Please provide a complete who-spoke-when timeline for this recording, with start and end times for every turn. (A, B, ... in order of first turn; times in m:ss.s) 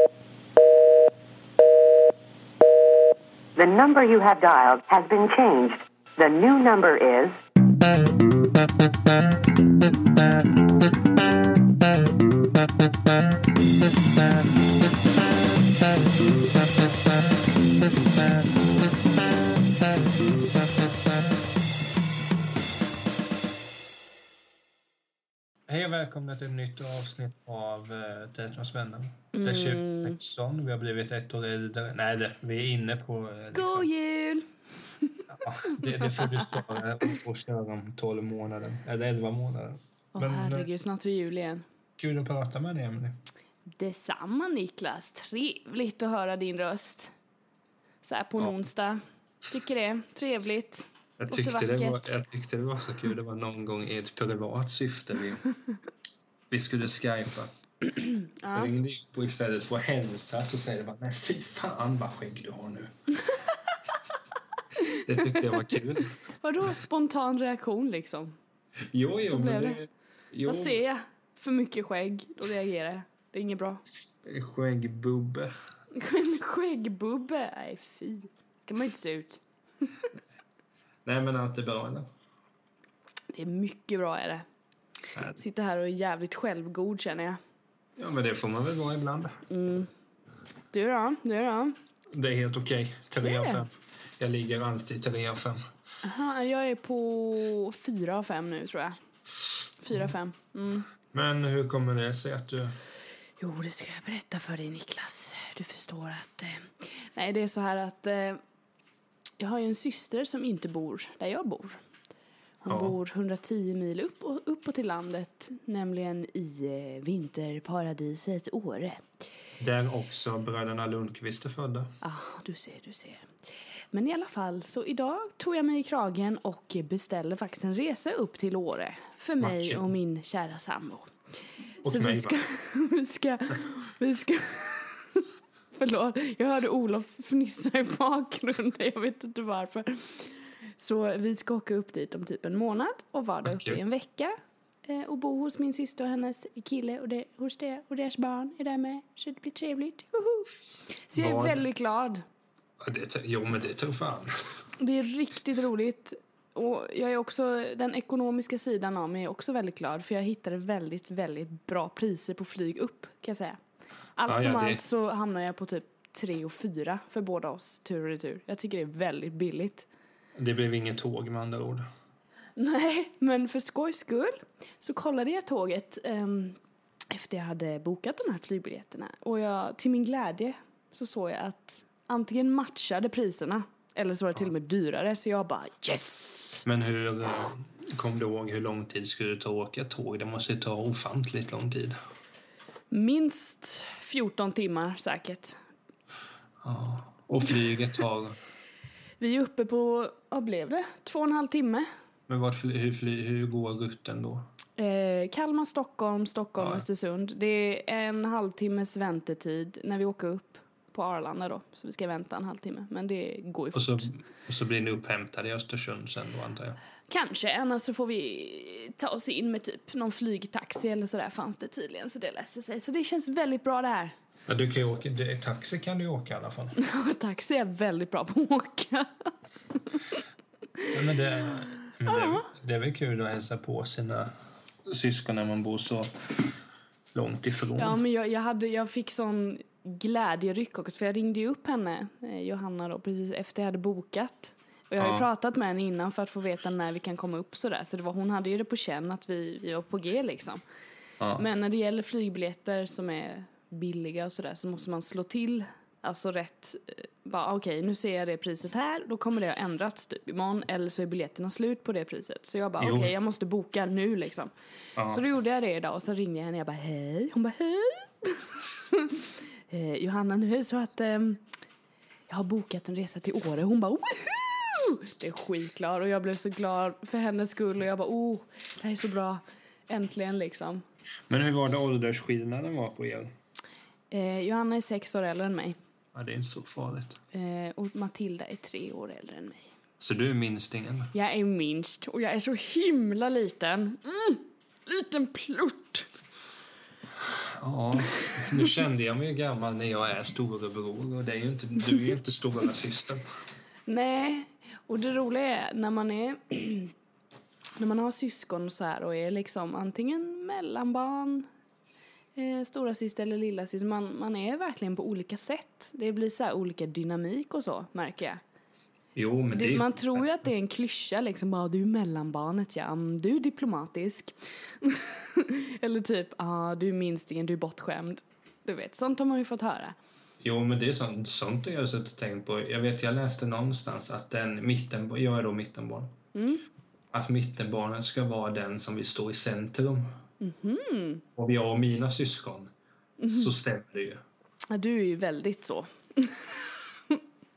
0:03.6-0:07.4 A
0:25.7-0:33.9 B
0:29.3-0:30.2 C
0:33.5-0:34.5 C
0:35.3-0:40.7 B
0:35.7-0:36.7 C
0:40.1-0:41.6 C
0:42.0-0:43.1 B
0:43.8-0:47.1 C
0:48.0-0:52.2 C
0:51.2-0:55.4 B
0:56.5-0:57.5 B
0:58.2-0:58.7 C
0:58.4-1:02.9 B
1:04.9-1:05.4 C
1:05.0-1:06.1 B
1:06.4-1:08.4 C
1:08.9-1:10.8 B
1:09.3-1:09.8 C
1:10.5-1:13.8 C
1:14.2-1:15.5 B
1:15.9-1:19.4 C
1:21.0-1:22.1 B
1:23.3-1:24.4 C
1:25.3-1:27.4 C
1:28.0-1:29.4 B
1:29.5-1:29.9 C
1:30.7-1:31.8 C
1:32.1-1:35.6 B
1:33.2-1:33.6 C
1:36.0-1:39.0 C
1:39.8-1:40.9 C
1:41.1-1:42.8 B
1:43.4-1:48.4 C
1:49.4-1:51.8 C
1:52.6-1:59.0 C
1:52.7-1:53.0 B
1:59.6-2:02.0 B
2:02.0-2:03.3 C
2:03.9-2:11.1 C
2:09.4-2:09.9 B
2:11.8-2:12.4 B
2:11.8-2:24.3 C
2:23.4-2:23.8 B
2:24.9-2:30.5 C
2:31.1-2:32.2 C
2:31.1-2:31.6 B
2:32.8-2:34.3 B
2:34.8-2:43.6 C
2:44.2-2:49.9 C
2:44.2-2:44.8 B
2:50.4-2:51.9 B
2:52.6-2:56.6 C
2:57.1-3:06.7 C
3:06.6-3:12.0 B
3:12.9-3:15.6 C
3:16.6-3:18.4 B
3:19.2-3:21.9 C
3:22.3-3:24.4 B
3:24.8-3:34.1 C
3:26.6-3:26.8 B
3:33.7-3:36.8 B
3:37.1-3:44.1 C
3:44.5-3:46.8 B
3:46.8-3:49.3 C
3:49.9-3:50.2 C
3:50.9-3:54.3 B
3:52.0-3:52.5 C
3:54.9-3:56.4 B
3:57.1-3:58.0 B
3:57.8-4:10.6 C
4:05.0-4:05.2 B
4:11.4-4:24.5 C
4:22.8-4:23.1 B
4:25.0-4:25.2 B
4:25.1-4:31.4 C
4:32.3-4:40.8 C
4:41.3-4:43.3 B
4:44.1-4:45.8 C
4:46.1-4:47.2 B
4:47.3-4:49.6 C
4:50.0-4:51.1 B
4:51.1-4:56.1 C
4:57.2-5:03.2 B
5:03.9-5:06.9 C
5:07.8-5:11.5 C
5:12.4-5:18.4 C
5:19.2-5:20.3 B
5:19.5-5:29.9 C
5:30.4-5:36.1 B
5:36.3-5:36.6 C
5:37.1-5:40.1 B
5:40.4-5:41.2 C
5:41.4-5:42.7 B
5:43.2-5:43.5 C
5:43.3-5:44.2 B
5:44.7-5:47.2 C